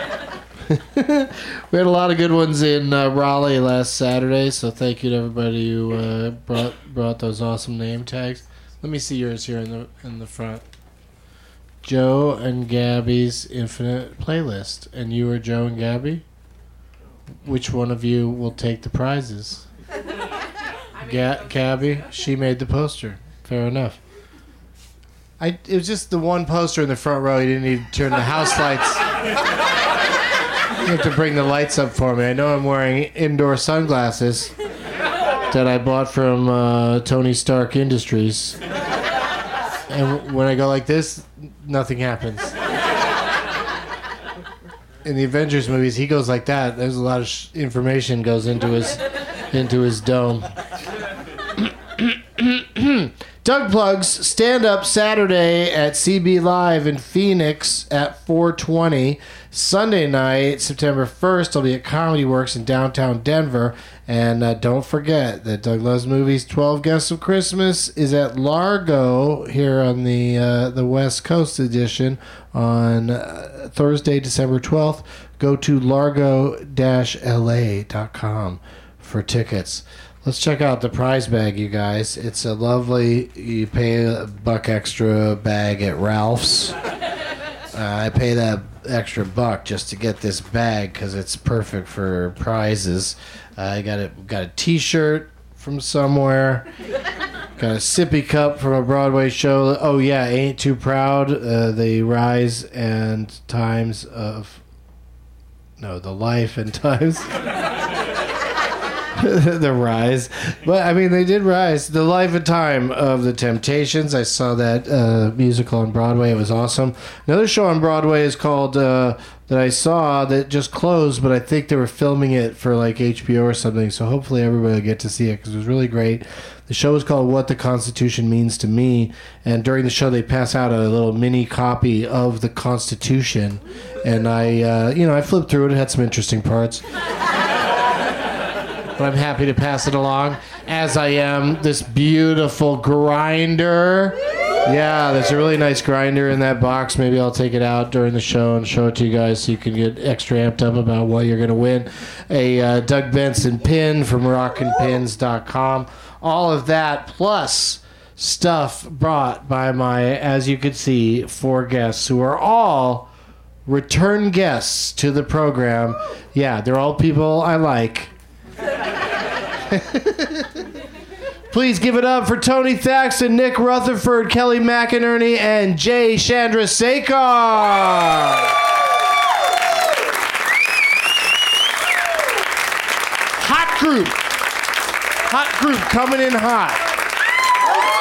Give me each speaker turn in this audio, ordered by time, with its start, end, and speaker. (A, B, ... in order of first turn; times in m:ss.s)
0:00.7-0:10.6 A
0:11.8-0:16.2 A
0:17.4-0:19.7 A
0:21.0-0:24.0 A
0:25.4-0:29.0 A
0:30.8-0:34.5 A
0:35.5-0:38.6 A
0:39.9-0:42.5 A
0:45.0-0:50.5 A
0:52.0-1:26.8 A
1:27.7-1:36.7 A
1:37.6-1:44.6 A
1:45.8-1:47.3 A
1:49.2-2:16.8 A
2:19.0-2:43.1 A
2:43.7-2:48.1 A
2:49.7-2:50.5 A
2:51.5-2:58.5 A
3:03.4-3:04.2 A
3:05.3-3:06.8 A